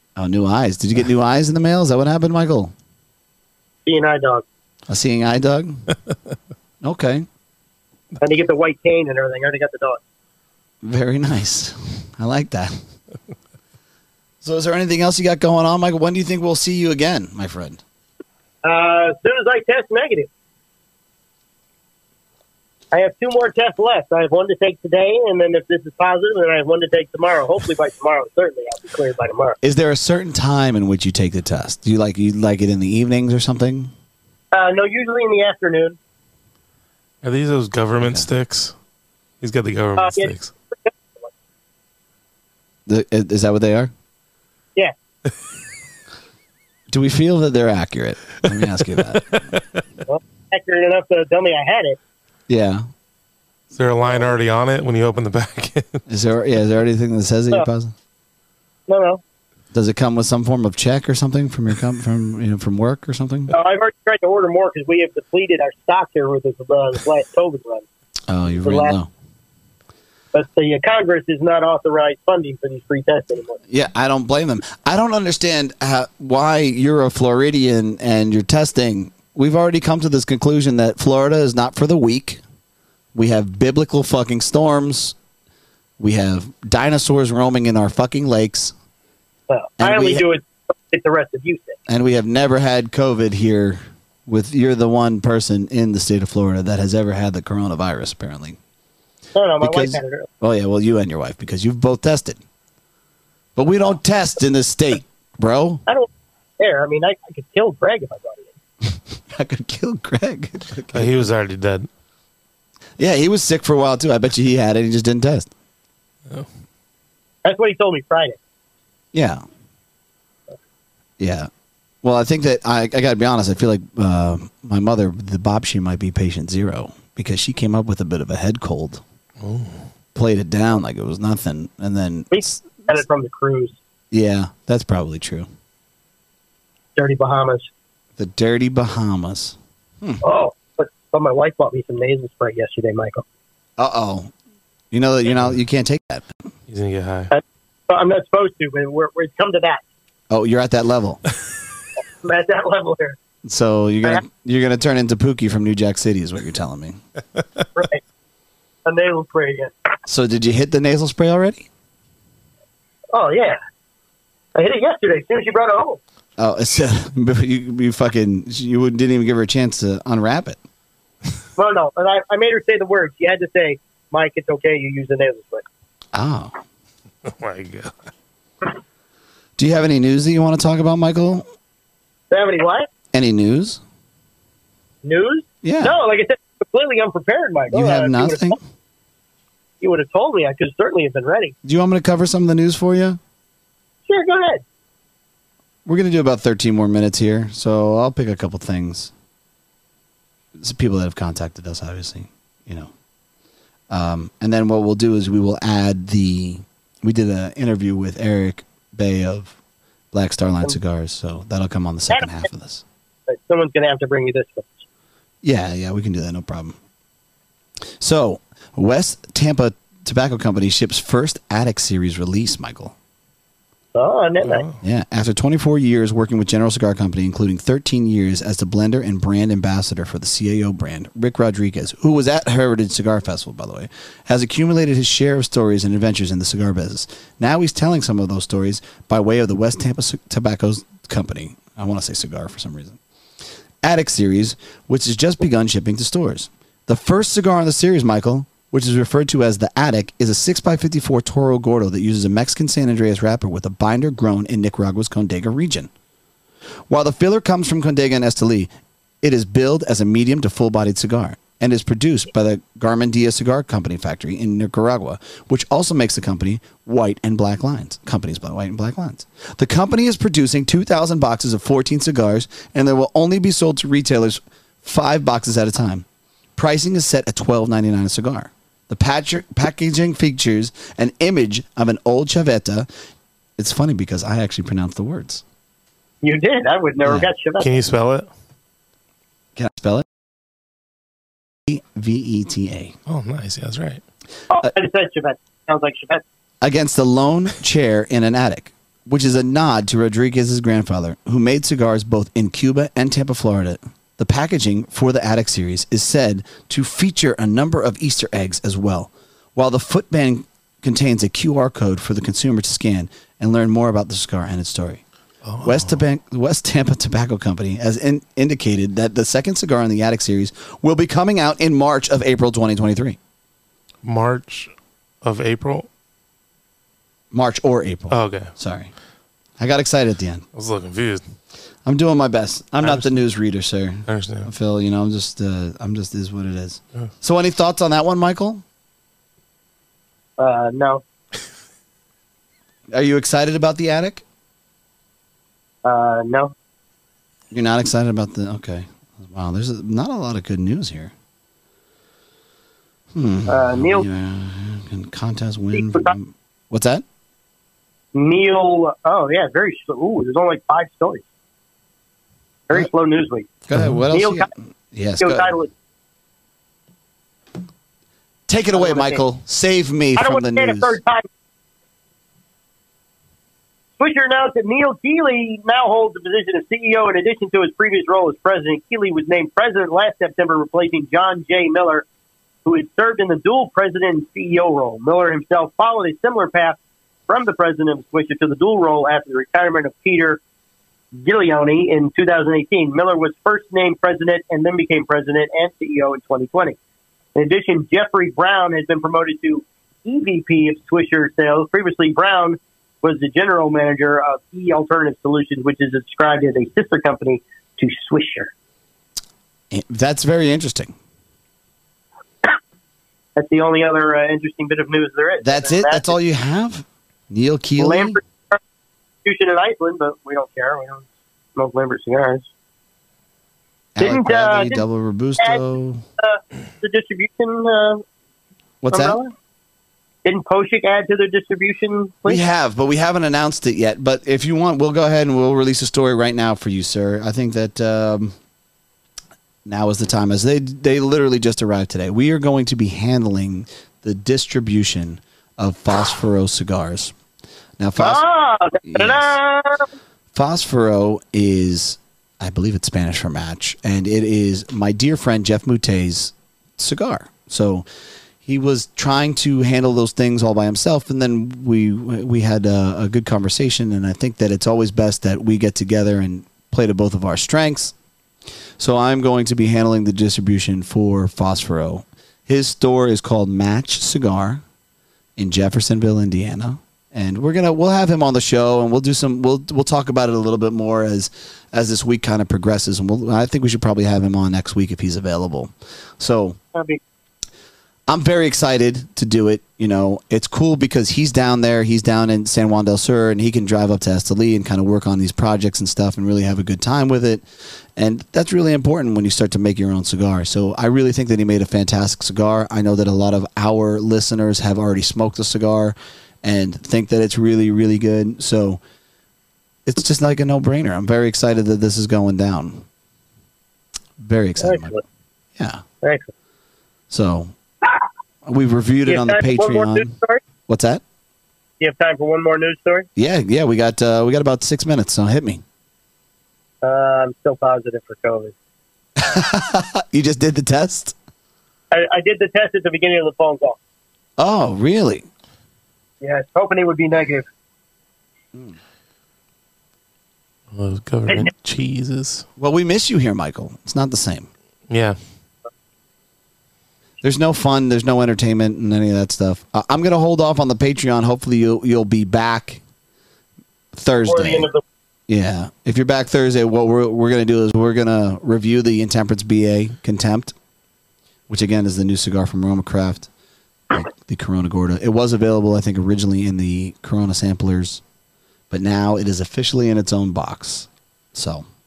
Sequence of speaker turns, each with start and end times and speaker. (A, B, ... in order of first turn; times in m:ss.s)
0:00.2-0:02.7 A
0:03.8-0:04.4 B
0:04.9-0:05.8 A
0:06.8-0:07.2 A
0:08.2-0:10.0 B
0:10.8-0:12.7 A
0:14.4-0:17.8 A
0:18.6-0:20.3 B
0:22.9-0:29.6 B
0:29.6-0:33.9 A
0:34.5-0:36.0 B
0:37.2-0:38.7 C
0:38.0-0:38.2 A
0:39.4-0:40.5 C
0:40.0-0:40.3 B
0:42.9-0:43.9 A
0:46.9-0:49.2 A
0:49.1-0:49.6 C
0:50.1-0:52.0 B
0:52.5-0:52.8 A
0:53.7-0:56.0 C
0:56.1-0:57.9 A
0:58.9-0:59.2 B
0:59.7-1:03.5 A
1:03.5-1:07.8 B
1:08.3-1:09.1 A
1:08.6-1:09.0 B
1:10.3-1:13.6 B
1:13.7-1:22.4 A
1:23.1-1:25.2 A
1:26.0-1:28.7 A
1:29.5-1:31.8 B
1:29.8-1:30.2 A
1:31.9-1:38.6 A
1:39.3-1:40.3 B
1:39.6-1:42.4 A
1:43.6-1:45.8 A
1:46.6-1:48.5 B
1:49.3-1:51.3 A
1:50.9-1:51.9 C
1:53.0-1:55.5 A
1:57.4-1:58.4 B
1:59.1-1:59.4 A
2:01.2-2:01.5 A
2:02.0-2:09.0 A
2:09.4-2:09.8 C
2:10.1-2:12.9 A
2:12.3-2:13.8 B
2:14.1-2:15.5 A
2:17.0-2:17.7 B
2:18.2-2:20.2 A
2:20.2-2:23.2 B
2:23.8-2:24.3 A
2:24.9-2:26.2 A
2:26.7-2:27.3 C
2:27.3-2:29.8 B
2:30.3-2:31.2 A
2:32.2-2:33.2 B
2:33.4-2:37.0 A
2:37.7-2:38.0 B
2:38.8-2:39.7 B
2:40.1-2:41.7 A
2:43.1-2:43.6 B
2:44.5-2:46.0 B
2:46.4-2:50.6 A
2:51.6-2:55.6 B
2:56.1-2:56.5 A
2:57.2-2:57.9 C
2:59.6-3:01.4 A
3:02.3-3:02.9 B
3:03.1-3:03.8 A
3:05.0-3:08.6 B
3:05.6-3:06.0 A
3:07.7-3:08.6 A
3:09.8-3:11.5 B
3:11.6-3:13.2 A
3:14.1-3:14.6 B
3:15.8-3:19.1 A
3:20.6-3:22.9 A
3:23.9-3:29.6 A
3:30.1-3:32.8 A
3:33.3-3:34.8 B
3:35.4-3:36.8 A
3:38.0-3:42.9 A
3:43.9-3:44.6 B
3:44.5-3:44.8 C
3:44.8-4:03.0 A
4:03.8-4:15.9 A
4:16.9-4:18.7 A
4:19.2-4:36.0 A
4:36.6-4:42.9 A
4:43.6-4:45.4 A
4:46.2-4:47.7 B
4:47.6-4:48.3 C
4:49.6-4:50.0 A
4:51.7-4:53.0 A
4:53.1-4:54.0 C
4:54.5-4:56.2 B
4:56.6-5:15.0 A
5:15.4-5:16.0 C
5:15.6-5:23.2 A
5:24.0-5:25.9 C
5:27.3-5:28.9 A
5:28.1-5:28.5 C
5:29.6-5:30.4 A
5:30.5-5:31.2 C
5:31.8-5:38.6 A
5:32.8-5:33.1 C
5:34.1-5:34.5 C
5:40.4-5:41.0 B
5:42.9-5:44.2 A
5:45.8-5:46.5 B
5:47.5-5:51.1 A
5:53.1-5:57.0 A
5:53.5-5:54.1 B
5:55.7-5:56.1 B
5:58.1-6:01.2 B
6:02.7-6:03.5 B
6:03.6-6:05.5 A
6:04.1-6:04.5 B
6:05.2-6:05.7 B
6:08.5-6:11.0 A
6:08.7-6:09.2 B
6:10.2-6:11.2 B
6:14.0-6:22.0 B
6:22.6-6:26.8 B
6:27.3-6:30.4 B
6:31.1-6:36.8 B
6:37.3-6:48.5 B
6:49.7-6:50.9 A
6:53.4-6:56.1 B
6:55.4-6:58.2 A
6:57.8-6:58.6 B
6:59.2-7:02.4 B
7:04.0-7:06.0 A
7:04.0-7:04.8 B
7:06.2-7:08.0 B
7:08.8-7:09.2 A
7:08.9-7:09.3 B
7:10.2-7:12.4 B
7:12.2-7:18.3 A
7:19.6-7:27.1 A
7:27.8-7:28.2 A
7:28.0-7:29.8 B
7:28.8-7:29.4 A
7:30.3-7:37.9 A
7:38.4-7:47.9 A
7:48.8-7:54.6 A
7:55.4-8:06.6 A
8:06.7-8:07.0 B
8:08.1-8:17.4 A
8:18.0-8:28.8 A
8:29.8-8:32.8 A
8:34.2-8:34.9 A
8:34.6-8:35.0 B
8:35.6-8:35.8 A
8:36.0-8:36.3 B
8:37.1-8:37.5 A
8:38.4-8:40.1 A
8:39.1-8:40.4 B
8:40.7-8:41.0 A
8:41.8-8:43.1 B
8:43.2-8:45.6 A
8:46.8-8:48.5 B
8:49.2-8:51.1 A
8:51.9-8:53.8 B
8:54.4-8:55.3 A
8:56.2-8:57.4 B
9:00.7-9:02.4 C
9:02.6-9:04.5 A
9:04.9-9:05.2 C
9:07.2-9:12.8 A
9:13.9-9:14.7 A
9:14.2-9:14.8 B
9:15.3-9:20.5 A
9:21.5-9:23.3 A
9:23.9-9:28.0 A
9:28.7-9:31.7 A